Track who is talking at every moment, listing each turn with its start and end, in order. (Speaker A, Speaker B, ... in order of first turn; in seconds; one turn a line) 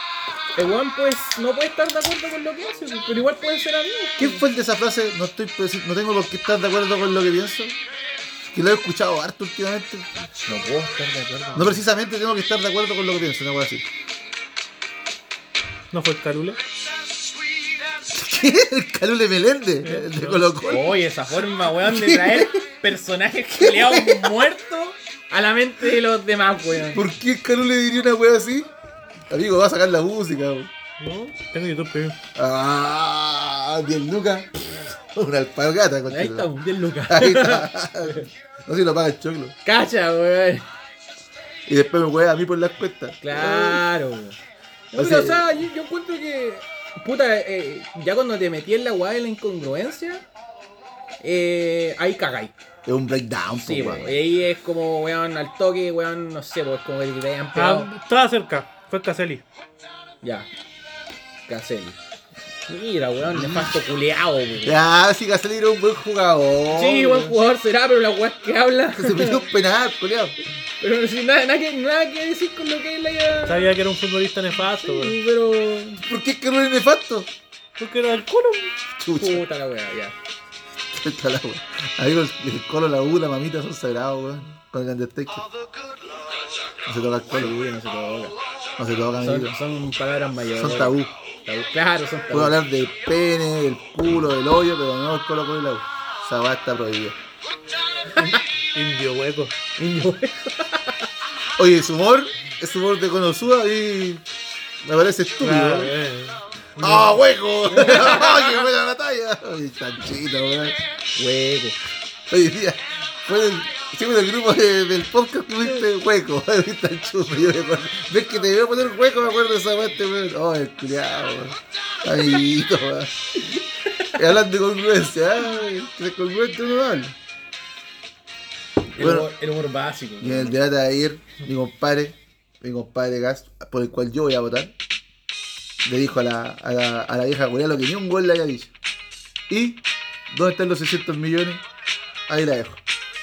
Speaker A: 0.5-4.4
Speaker B: 4.2-7.8
Speaker B: 8.5-10.2
Speaker A: 10.4-11.8
Speaker B: 11.5-13.8
Speaker C: 15.9-16.6
Speaker B: 18.1-21.0
Speaker C: 19.8-20.4
Speaker A: 20.6-27.0
Speaker B: 21.8-22.6
Speaker B: 23.6-24.4
Speaker B: 26.9-28.7
Speaker B: 29.3-30.7
Speaker C: 31.0-32.2
Speaker B: 32.3-36.5
Speaker A: 36.1-38.3
Speaker B: 37.1-39.5
Speaker A: 39.6-40.6
Speaker B: 41.7-43.8
Speaker A: 43.2-44.4
Speaker A: 44.9-50.2
Speaker B: 44.9-45.5
Speaker A: 51.2-52.5
Speaker B: 52.9-54.2
Speaker A: 53.6-57.9
Speaker C: 57.5-59.4
Speaker A: 60.2-60.5
Speaker A: 61.5-62.0
Speaker A: 62.7-64.8
Speaker B: 63.3-63.7
Speaker B: 64.6-67.4
Speaker A: 66.7-69.5
Speaker B: 68.9-70.4
Speaker A: 70.8-73.7
Speaker C: 73.5-75.2
Speaker A: 74.8-76.0
Speaker B: 76.0-77.3
Speaker C: 77.8-78.7
Speaker B: 79.0-79.4
Speaker A: 79.2-80.1
Speaker B: 80.9-85.5
Speaker B: 86.8-87.6
Speaker A: 87.3-88.4
Speaker B: 88.8-89.6
Speaker A: 89.2-92.6
Speaker B: 90.5-91.1
Speaker B: 92.3-97.2
Speaker C: 98.1-99.6
Speaker A: 99.8-101.0
Speaker B: 101.6-104.2
Speaker B: 104.8-105.9
Speaker C: 105.4-107.2
Speaker B: 106.8-110.8
Speaker A: 107.7-108.6
Speaker A: 111.2-111.8
Speaker B: 112.3-123.5
Speaker A: 123.9-124.2
Speaker B: 124.1-127.2
Speaker A: 128.9-130.6
Speaker B: 129.0-129.3
Speaker B: 130.2-134.7
Speaker B: 135.8-138.7
Speaker B: 139.5-141.6
Speaker B: 142.3-142.8